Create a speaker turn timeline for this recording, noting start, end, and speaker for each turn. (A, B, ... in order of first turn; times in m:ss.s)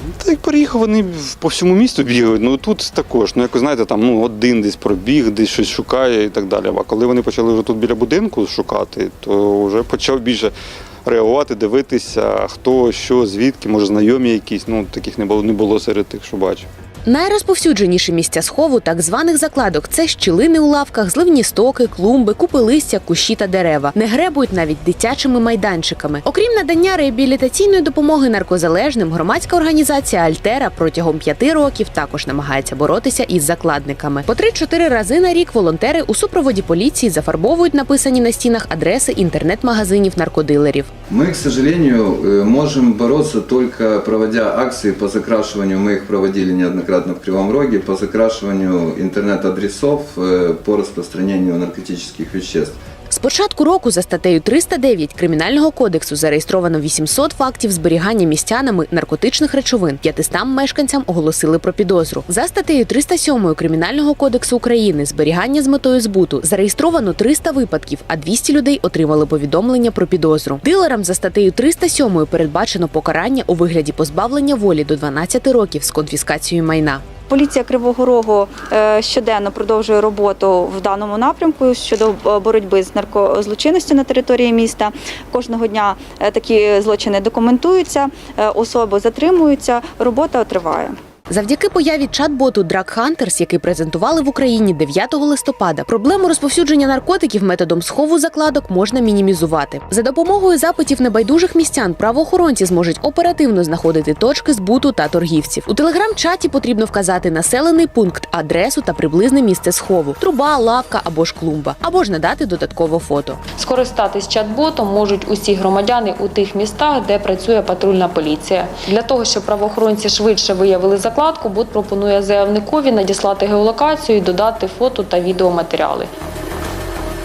0:00.2-0:10.5 A
0:11.0-0:16.7 A
0:17.0-0:40.9 B
0:41.1-0:52.8 C
0:53.1-1:17.0 B
1:17.3-1:30.9 D
1:31.3-1:53.4 B
1:53.6-2:06.1 E